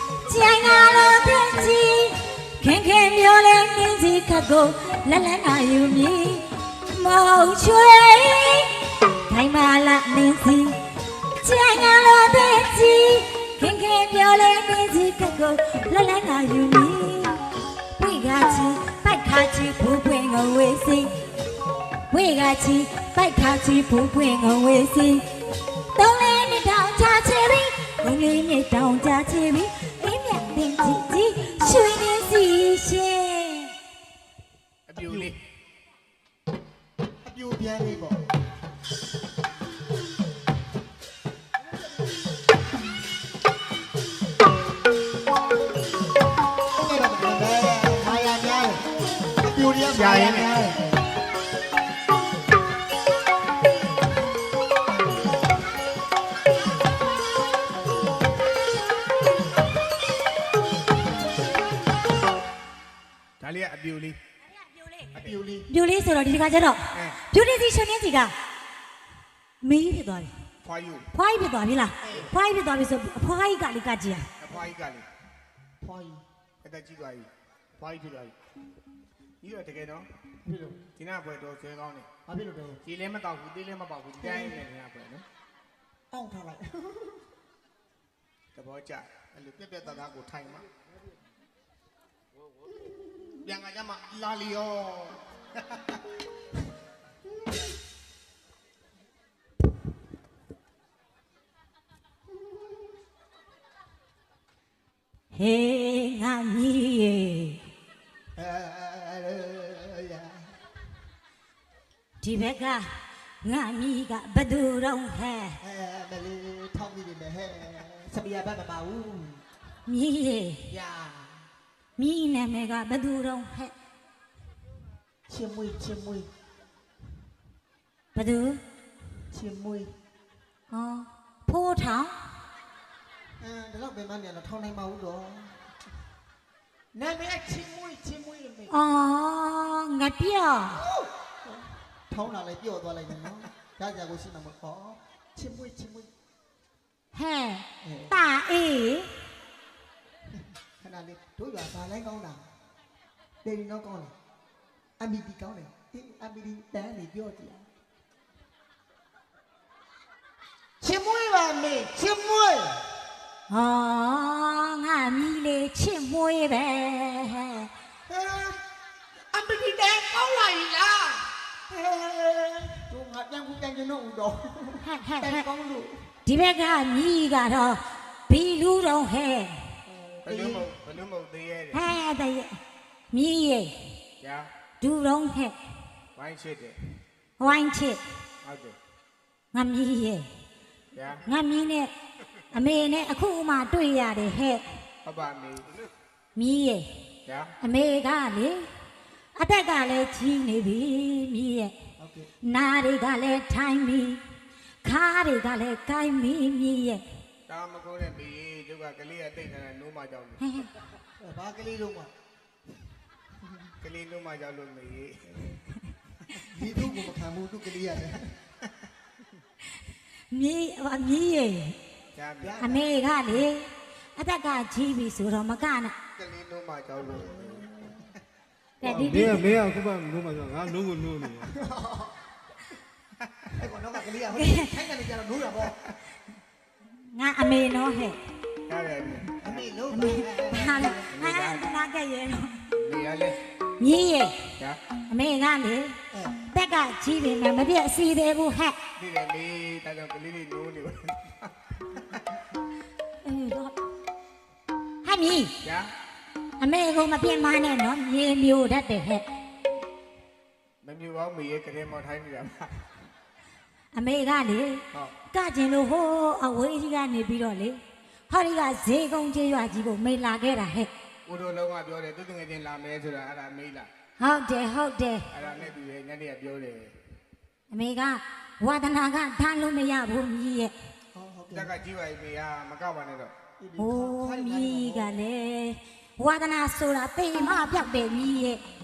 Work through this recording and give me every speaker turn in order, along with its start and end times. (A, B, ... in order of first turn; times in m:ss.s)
0:00.2-0:10.8 A
0:11.4-0:17.4 A
0:18.0-0:21.1 A
0:22.1-0:25.3 A
0:25.9-0:33.7 A
0:34.9-0:35.4 B
0:35.0-0:35.3 C
0:37.2-0:38.2 C
0:46.7-0:50.9 C
0:49.9-0:50.5 B
1:03.4-1:04.2 B
1:04.5-1:05.1 A
1:05.1-1:05.7 C
1:05.7-1:08.3 A
1:06.9-1:07.2 B
1:09.6-1:10.3 A
1:10.6-1:11.1 B
1:11.1-1:14.3 A
1:12.0-1:12.3 B
1:14.4-1:15.1 B
1:15.8-1:16.2 C
1:16.6-1:18.3 B
1:19.4-1:20.1 B
1:20.4-1:20.8 C
1:21.0-1:22.1 B
1:22.2-1:22.8 C
1:22.8-1:25.2 B
1:24.2-1:24.6 C
1:26.1-1:27.2 C
1:28.5-1:30.6 B
1:32.8-1:33.4 C
1:33.4-1:36.0 B
1:45.3-1:47.6 A
1:48.4-1:50.6 C
1:52.2-1:55.6 A
1:55.6-1:59.4 C
1:59.9-2:00.6 A
2:00.7-2:01.5 C
2:02.0-2:03.7 A
2:05.3-2:06.3 C
2:08.1-2:08.6 A
2:09.3-2:09.9 C
2:10.7-2:12.2 A
2:13.4-2:15.6 C
2:16.9-2:18.8 C
2:18.7-2:20.8 A
2:20.7-2:26.1 C
2:27.1-2:29.1 A
2:27.8-2:28.2 C
2:30.8-2:32.5 C
2:33.4-2:34.1 C
2:35.0-2:37.7 C
2:40.8-2:42.8 C
2:43.5-2:47.7 A
2:48.1-2:48.6 C
2:49.3-2:56.0 C
2:54.8-2:55.4 A
2:56.2-2:59.7 A
2:59.8-3:00.7 C
3:00.2-3:01.8 B
3:01.7-3:02.6 A
3:03.1-3:03.7 A
3:04.2-3:04.5 B
3:04.8-3:05.6 A
3:06.2-3:06.8 B
3:07.4-3:08.0 A
3:08.4-3:08.8 B
3:09.5-3:10.3 A
3:10.9-3:11.2 B
3:11.2-3:11.9 A
3:12.5-3:14.6 A
3:15.0-3:15.7 B
3:16.3-3:16.8 A
3:17.2-3:17.5 B
3:17.6-3:18.7 A
3:19.3-3:21.7 A
3:22.0-3:22.3 C
3:22.4-3:24.2 A
3:24.8-3:27.0 A
3:27.5-3:30.4 B
3:30.4-3:30.7 A
3:31.2-3:32.1 C
3:33.8-3:35.4 B
3:35.3-3:35.6 C
3:36.4-3:38.3 C
3:40.3-3:41.8 A
3:42.1-3:42.6 B
3:42.4-3:42.8 C
3:42.6-3:46.0 A
3:46.2-3:47.7 B
3:47.0-3:48.1 C
3:48.8-3:49.5 A
3:48.8-3:51.5 D
3:53.2-3:53.5 B
3:53.6-3:55.8 C
3:54.4-3:54.7 A
3:57.1-3:58.2 A
3:58.7-3:59.6 B
3:59.4-4:01.1 C
3:59.9-4:02.6 A
4:01.1-4:01.7 B
4:02.7-4:03.4 B
4:03.8-4:04.4 A
4:05.1-4:06.0 A
4:06.1-4:06.4 C
4:06.5-4:08.8 A
4:09.0-4:12.2 B
4:13.2-4:13.8 A
4:15.0-4:15.5 A
4:15.6-4:15.9 B
4:16.6-4:19.2 A
4:20.8-4:22.9 B
4:23.9-4:30.9 A
4:31.2-4:33.9 B
4:34.2-4:35.3 A
4:35.3-4:37.0 B
4:35.4-4:35.7 C
4:37.7-4:40.7 A
4:41.1-4:41.7 C
4:41.5-4:43.3 B
4:43.6-4:45.1 C
4:43.8-4:48.6 A